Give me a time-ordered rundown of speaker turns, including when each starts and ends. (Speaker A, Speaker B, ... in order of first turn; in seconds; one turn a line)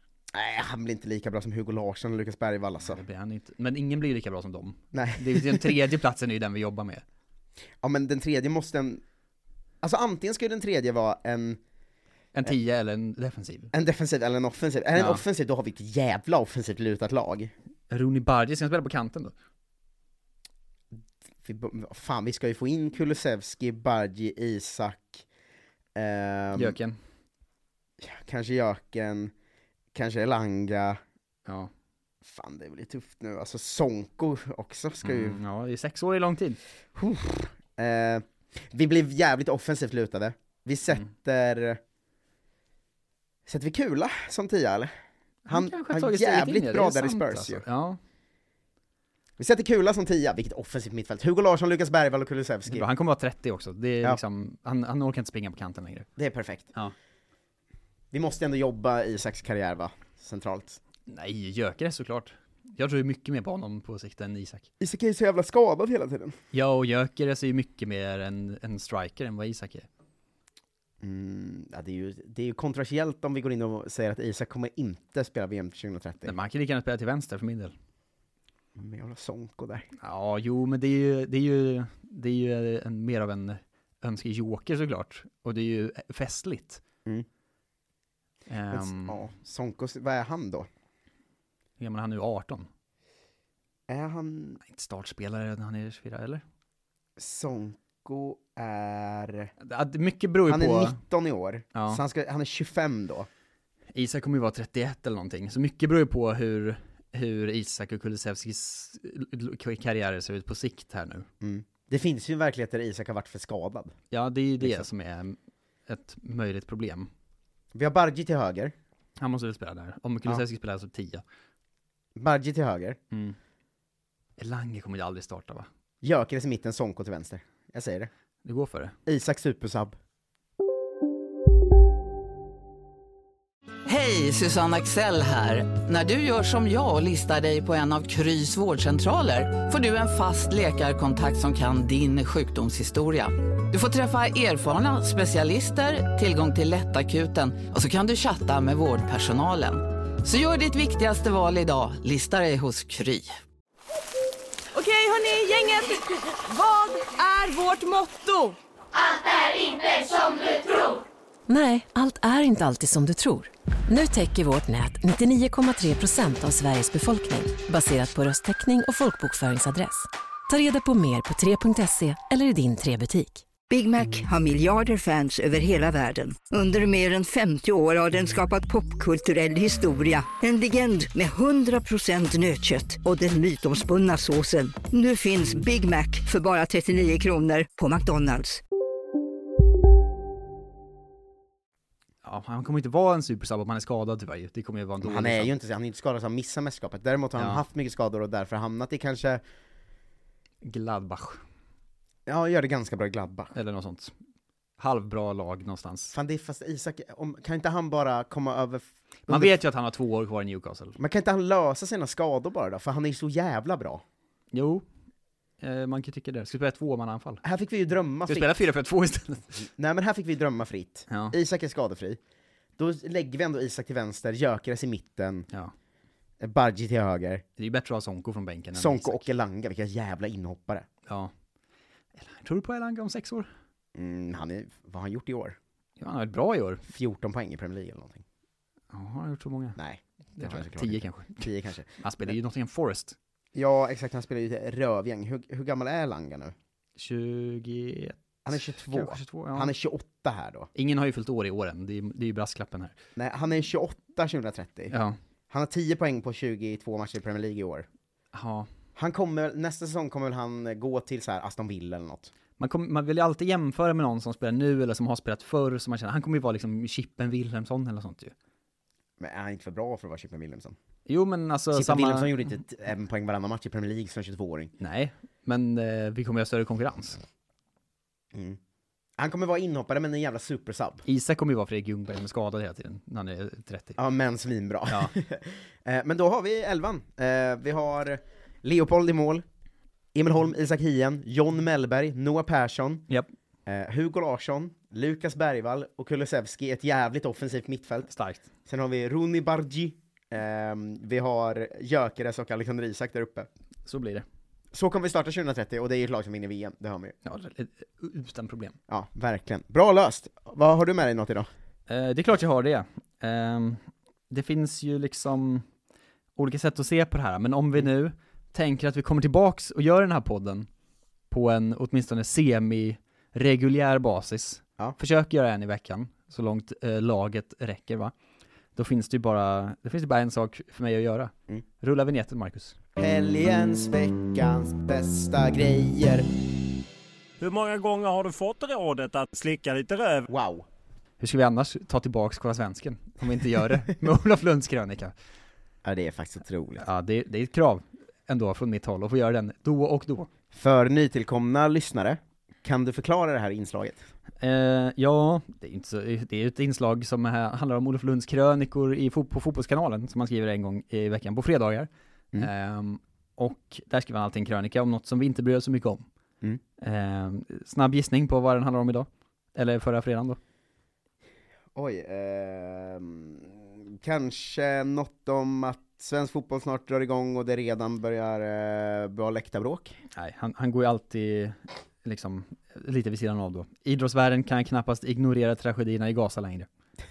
Speaker A: 0.3-3.0
Speaker B: 2.9-7.0
Speaker A: 4.9-5.8
Speaker A: 7.8-9.0
Speaker A: 9.8-11.6
Speaker B: 12.3-13.7
Speaker A: 13.7-17.5
Speaker B: 14.9-15.2
Speaker B: 17.9-19.3
Speaker A: 21.4-25.2
Speaker A: 25.9-26.8
Speaker B: 26.6-27.0
Speaker A: 28.0-29.3
Speaker A: 29.9-31.0
Speaker A: 32.2-35.4
Speaker B: 35.0-36.6
Speaker A: 36.9-41.8
Speaker A: 43.5-44.9
Speaker B: 45.5-48.0
Speaker A: 45.5-47.6
Speaker A: 49.4-52.9
Speaker B: 52.7-56.1
Speaker A: 56.2-56.7
Speaker A: 58.1-60.8
Speaker B: 61.1-64.7
Speaker A: 64.8-66.4
Speaker B: 66.5-69.9
Speaker A: 71.0-76.3
Speaker B: 76.2-77.7
Speaker A: 78.8-79.9
Speaker B: 80.0-86.8
Speaker B: 88.5-89.2
Speaker A: 88.7-90.7
Speaker B: 91.8-92.7
Speaker A: 93.9-94.6
Speaker B: 94.6-96.4
Speaker A: 97.2-99.5
Speaker B: 99.6-101.0
Speaker A: 100.5-103.3
Speaker B: 101.7-102.0
Speaker B: 103.9-111.3
Speaker A: 111.4-113.9
Speaker B: 114.1-117.1
Speaker A: 117.7-118.7
Speaker B: 119.2-121.2
Speaker A: 122.1-123.0
Speaker B: 123.1-123.4
Speaker B: 124.4-125.7
Speaker A: 126.0-128.1
Speaker B: 128.4-128.9
Speaker A: 129.1-129.9
Speaker C: 133.9-153.4
Speaker D: 154.7-158.6
Speaker E: 161.5-173.4
Speaker F: 173.7-188.6
Speaker B: 192.2-195.5
Speaker A: 195.0-199.4
Speaker B: 197.4-197.6
Speaker B: 200.6-201.4
Speaker A: 202.2-203.5
Speaker B: 203.5-204.1
Speaker B: 204.8-206.1
Speaker A: 206.1-209.6
Speaker B: 209.3-211.0
Speaker A: 211.0-214.0
Speaker B: 214.5-214.8
Speaker B: 215.6-217.4
Speaker A: 217.4-218.5
Speaker B: 218.3-219.6
Speaker A: 219.8-222.2
Speaker B: 221.1-221.3
Speaker A: 222.8-225.5
Speaker A: 226.4-227.4
Speaker B: 227.6-229.3
Speaker A: 228.7-230.9
Speaker B: 231.1-231.3
Speaker B: 232.2-233.5
Speaker A: 233.9-235.6
Speaker B: 236.0-236.8
Speaker A: 236.9-238.2
Speaker B: 238.9-239.8
Speaker A: 239.8-241.9
Speaker B: 240.4-243.2
Speaker A: 243.6-246.5
Speaker B: 247.0-249.7
Speaker A: 248.4-250.7
Speaker B: 250.7-252.9
Speaker A: 253.2-254.9
Speaker B: 254.9-255.2
Speaker A: 255.5-257.9
Speaker B: 258.3-258.7
Speaker A: 258.9-262.3
Speaker B: 262.6-268.3
Speaker A: 269.2-270.8
Speaker B: 271.1-272.4
Speaker A: 271.7-274.7
Speaker B: 274.8-277.2
Speaker A: 278.3-278.6
Speaker A: 279.2-281.1
Speaker B: 281.1-284.0
Speaker A: 284.0-289.4
Speaker B: 284.9-285.1
Speaker A: 290.1-293.1
Speaker A: 293.6-298.1
Speaker B: 298.1-298.4
Speaker A: 298.6-303.5
Speaker B: 303.9-304.2
Speaker A: 304.7-307.1
Speaker B: 307.2-308.8
Speaker A: 308.9-311.5
Speaker B: 311.9-315.6
Speaker B: 316.4-320.7
Speaker B: 321.3-328.1
Speaker B: 328.8-332.8
Speaker A: 332.9-336.4
Speaker G: 337.4-340.3
Speaker A: 340.3-340.7
Speaker B: 341.2-345.1
Speaker A: 345.8-346.8
Speaker B: 346.8-350.3
Speaker A: 350.5-354.0
Speaker B: 354.4-366.1
Speaker B: 366.8-370.4
Speaker A: 371.7-380.0
Speaker B: 380.1-386.7